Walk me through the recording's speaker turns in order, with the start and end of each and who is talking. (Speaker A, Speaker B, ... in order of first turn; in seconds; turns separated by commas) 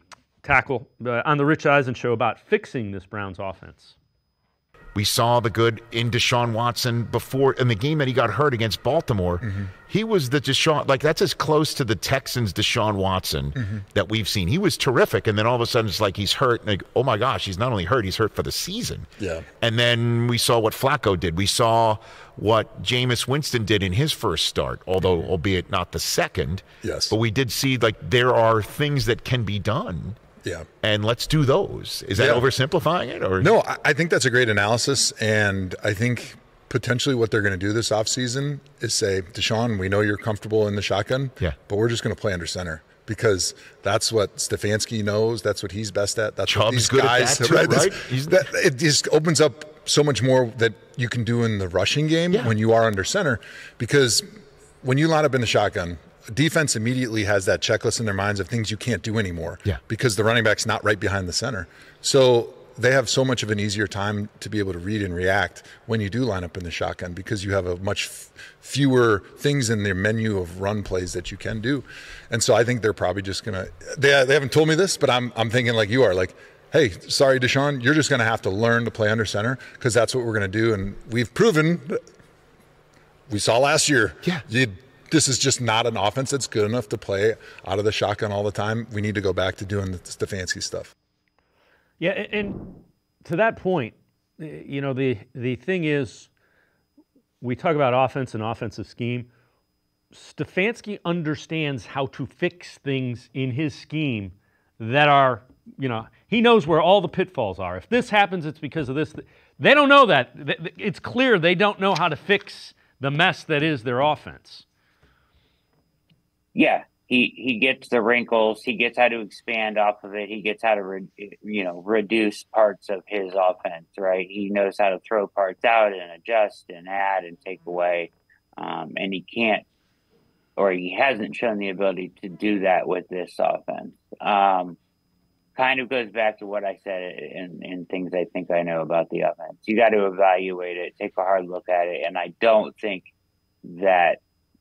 Speaker A: 0.4-4.0, Speaker B: 4.9-19.1, Speaker C: 9.4-9.7, Speaker C: 19.2-19.5, Speaker B: 19.6-30.2, Speaker C: 26.8-27.1, Speaker B: 30.8-33.5, Speaker C: 32.1-32.4, Speaker C: 33.4-54.2, Speaker B: 46.5-48.4, Speaker C: 54.8-82.0, Speaker C: 83.3-90.9, Speaker A: 92.0-96.3, Speaker A: 97.4-99.3, Speaker A: 100.1-114.6, Speaker D: 116.5-129.7, Speaker D: 130.6-134.8, Speaker D: 135.5-143.1, Speaker D: 143.6-144.2